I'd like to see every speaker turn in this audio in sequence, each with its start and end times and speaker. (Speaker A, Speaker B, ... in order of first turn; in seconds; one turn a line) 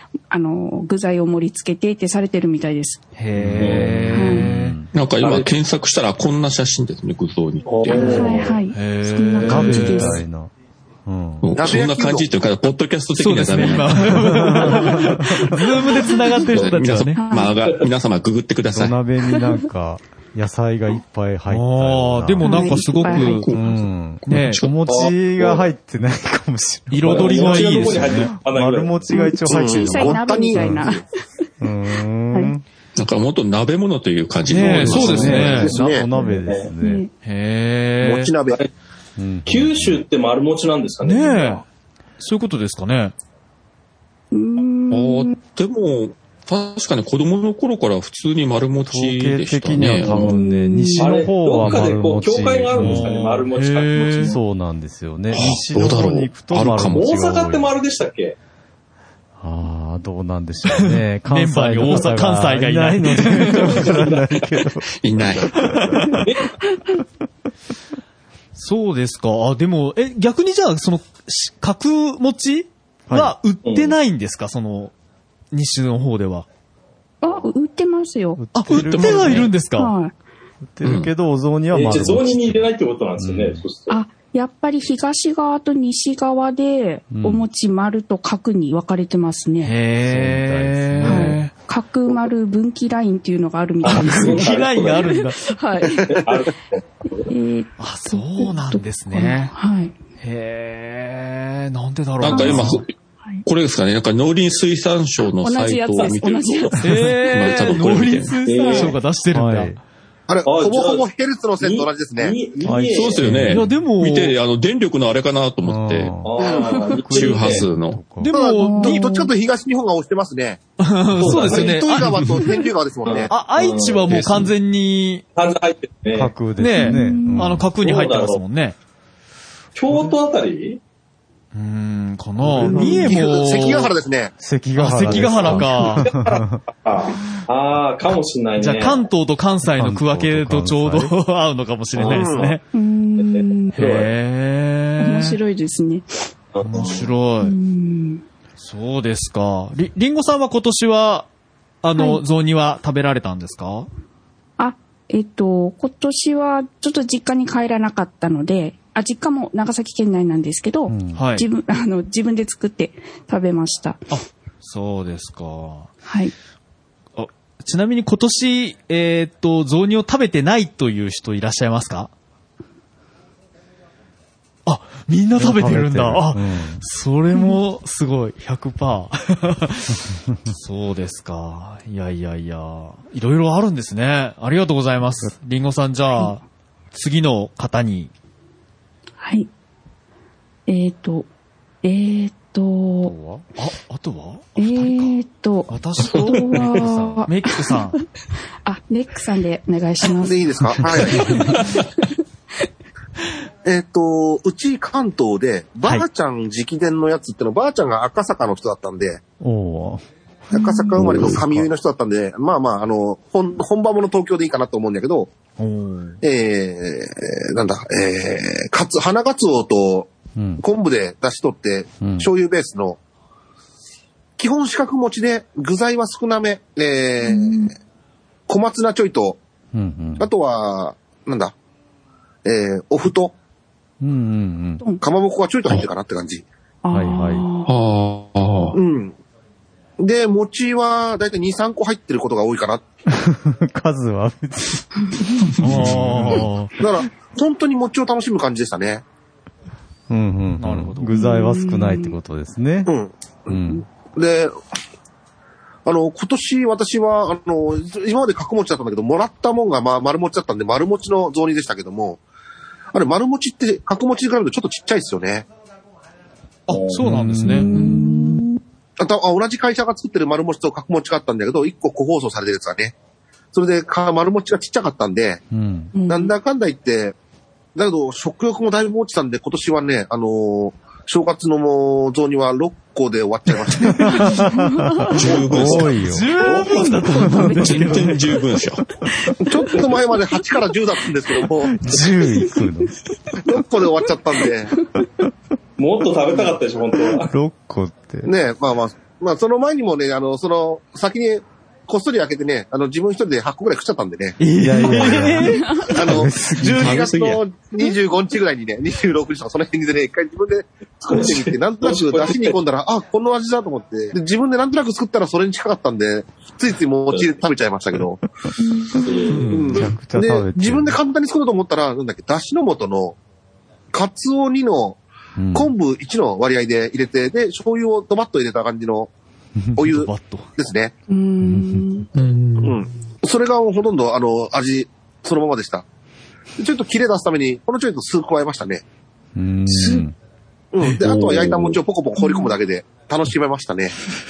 Speaker A: 0.3-3.0
Speaker B: 3.1-4.8
Speaker C: 3.4-4.9
Speaker D: 3.6-3.9
Speaker A: 4.1-4.5
Speaker E: 4.9-8.3
Speaker D: 5.2-5.5
Speaker D: 7.6-8.6
Speaker A: 7.9-10.2
Speaker B: 8.7-10.2
Speaker C: 9.4-10.5
Speaker C: 11.1-11.5
Speaker E: 11.4-14.5
Speaker F: 11.6-12.3
Speaker B: 13.2-17.2
Speaker C: 14.1-15.5
Speaker E: 16.4-18.9
Speaker A: 17.1-17.5
Speaker C: 18.7-22.9
Speaker B: 21.5-23.6
Speaker A: 22.4-23.4
Speaker E: 23.1-23.7
Speaker C: 23.5-30.9
Speaker E: 24.2-24.7
Speaker B: 24.3-24.6
Speaker D: 24.9-25.7
Speaker B: 26.9-28.4
Speaker D: 27.0-29.3
Speaker A: 29.1-31.0
Speaker F: 29.5-31.0
Speaker C: 31.6-32.6
Speaker E: 33.0-35.7
Speaker B: 34.5-35.8
Speaker C: 34.7-37.0
Speaker F: 34.9-36.1
Speaker D: 36.1-36.7
Speaker A: 36.8-37.1
Speaker B: 37.2-38.4
Speaker F: 38.0-38.6
Speaker C: 39.2-40.0
Speaker D: 39.5-41.6
Speaker B: 41.0-41.6
Speaker B: 42.2-43.1
Speaker A: 44.3-45.3
Speaker E: 44.9-50.2
Speaker C: 48.9-53.2
Speaker D: 50.0-50.3
Speaker A: 50.1-51.2
Speaker D: 51.0-54.4
Speaker B: 52.7-54.4
Speaker C: 54.2-57.7
Speaker E: 55.3-57.1
Speaker D: 56.8-58.4
Speaker C: 59.4-64.9
Speaker B: 60.7-63.9
Speaker D: 63.7-64.5
Speaker E: 65.0-65.6
Speaker C: 65.5-66.2
Speaker D: 66.2-66.5
Speaker B: 68.5-74.9
Speaker C: 73.1-73.3
Speaker D: 73.6-74.0
Speaker B: 75.5-76.5
Speaker A: 77.2-78.4
Speaker C: 78.4-79.5
Speaker B: 78.5-79.9
Speaker E: 78.8-79.5
Speaker A: 79.8-80.1
Speaker C: 80.7-83.6
Speaker E: 80.8-81.1
Speaker D: 81.7-84.0
Speaker A: 83.9-89.7
Speaker C: 87.1-87.5
Speaker B: 89.6-91.5
Speaker C: 90.0-91.4
Speaker A: 91.0-96.2
Speaker D: 93.8-95.1
Speaker B: 93.9-95.4
Speaker D: 96.0-97.3
Speaker A: 97.3-100.0
Speaker B: 97.8-99.5
Speaker B: 100.2-102.8
Speaker E: 102.2-102.9
Speaker A: 102.3-102.7
Speaker E: 103.5-108.3
Speaker A: 105.4-106.8
Speaker B: 106.8-109.8
Speaker D: 108.4-109.0
Speaker A: 108.5-108.9
Speaker C: 109.3-109.8
Speaker F: 110.3-112.4
Speaker D: 110.4-113.3
Speaker C: 112.6-113.7
Speaker E: 112.9-116.1
Speaker B: 113.4-114.4
Speaker C: 115.6-118.3
Speaker D: 116.2-117.7
Speaker F: 116.4-116.7
Speaker A: 116.5-116.9
Speaker E: 117.1-118.0
Speaker B: 118.2-119.1
Speaker F: 118.3-120.6
Speaker A: 118.6-119.3
Speaker B: 120.8-122.4
Speaker D: 121.2-121.9
Speaker F: 121.2-123.3
Speaker D: 123.0-124.2
Speaker B: 123.3-125.2
Speaker E: 124.1-124.5
Speaker D: 125.3-126.3
Speaker C: 126.1-127.7
Speaker B: 126.5-128.8
Speaker A: 126.8-127.5
Speaker D: 127.8-128.4
Speaker D: 129.7-130.8
Speaker B: 131.5-133.9
Speaker C: 132.4-133.2
Speaker A: 132.7-133.0
Speaker F: 133.0-134.3
Speaker C: 134.4-136.6
Speaker B: 134.8-136.1
Speaker D: 135.4-139.1
Speaker B: 138.6-142.6
Speaker C: 139.7-141.1
Speaker D: 141.9-142.4
Speaker F: 141.9-142.6
Speaker A: 142.7-143.8
Speaker D: 143.2-144.1
Speaker B: 143.7-145.4
Speaker A: 145.0-146.1
Speaker D: 146.5-147.1
Speaker B: 146.6-147.5
Speaker A: 147.4-148.2
Speaker B: 148.6-151.3
Speaker B: 151.8-153.9
Speaker A: 151.9-152.2
Speaker A: 154.6-164.0
Speaker C: 160.9-161.2
Speaker B: 161.1-161.4
Speaker B: 164.1-165.9
Speaker A: 166.0-166.3
Speaker B: 167.2-172.1
Speaker B: 174.7-186.4
Speaker C: 175.4-176.8
Speaker B: 186.9-188.1
Speaker A: 189.2-189.5
Speaker A: 190.7-191.3
Speaker A: 191.8-193.1
Speaker C: 193.0-193.4
Speaker B: 193.6-195.1
Speaker A: 194.6-197.9
Speaker B: 195.7-198.0
Speaker A: 198.6-200.4
Speaker F: 200.2-201.5
Speaker A: 200.9-202.1
Speaker F: 203.6-209.2
Speaker C: 209.4-210.0
Speaker A: 210.5-210.9
Speaker F: 210.5-215.3
Speaker C: 211.0-211.7
Speaker B: 215.6-216.2
Speaker F: 216.2-223.0
Speaker C: 220.3-220.6
Speaker C: 222.0-222.3
Speaker F: 224.4-227.7
Speaker A: 227.2-227.7
Speaker F: 228.5-229.4
Speaker C: 229.7-230.3
Speaker F: 230.2-231.5
Speaker F: 232.4-233.3
Speaker C: 234.0-234.8
Speaker F: 235.0-236.4
Speaker A: 236.8-237.7
Speaker C: 236.9-237.4
Speaker E: 237.7-238.8
Speaker F: 238.7-239.2
Speaker F: 240.0-242.8
Speaker C: 243.1-245.1
Speaker A: 245.1-245.4
Speaker B: 245.6-246.7
Speaker C: 245.6-246.4
Speaker F: 246.8-249.0
Speaker C: 250.1-252.9
Speaker B: 250.6-251.1
Speaker A: 251.1-252.2
Speaker F: 252.8-254.6
Speaker C: 253.5-253.8
Speaker F: 255.8-262.2
Speaker F: 262.9-265.5
Speaker B: 266.7-267.7
Speaker D: 266.7-267.0
Speaker C: 267.0-267.9
Speaker A: 267.4-268.6
Speaker E: 267.7-268.4
Speaker F: 269.0-272.9
Speaker F: 273.5-275.4
Speaker C: 275.5-275.9
Speaker A: 275.9-276.3
Speaker F: 276.1-277.1
Speaker F: 277.7-284.3
Speaker C: 283.9-286.3
Speaker A: 284.1-285.2
Speaker E: 285.1-286.0
Speaker B: 285.6-288.2
Speaker D: 286.5-286.8
Speaker E: 287.4-288.8
Speaker F: 289.4-292.0
Speaker C: 291.7-292.9
Speaker F: 293.4-294.7
Speaker D: 295.8-297.3
Speaker C: 297.2-298.3
Speaker F: 298.2-304.4
Speaker B: 304.4-305.9
Speaker C: 304.6-307.0
Speaker F: 305.9-318.2
Speaker E: 306.7-307.4
Speaker D: 311.1-312.6
Speaker A: 318.6-319.0
Speaker D: 319.0-319.6
Speaker E: 319.3-319.9
Speaker F: 319.4-323.2
Speaker C: 319.7-321.0
Speaker F: 323.9-325.0
Speaker C: 325.4-325.7
Speaker F: 325.5-329.1
Speaker F: 329.8-330.9
Speaker B: 329.9-330.5
Speaker A: 331.1-332.1
Speaker C: 331.4-331.9
Speaker E: 332.1-332.8
Speaker F: 332.6-335.9
Speaker F: 336.6-338.8
Speaker C: 339.3-340.1
Speaker F: 340.7-343.9
Speaker D: 341.0-341.7
Speaker A: 342.2-342.5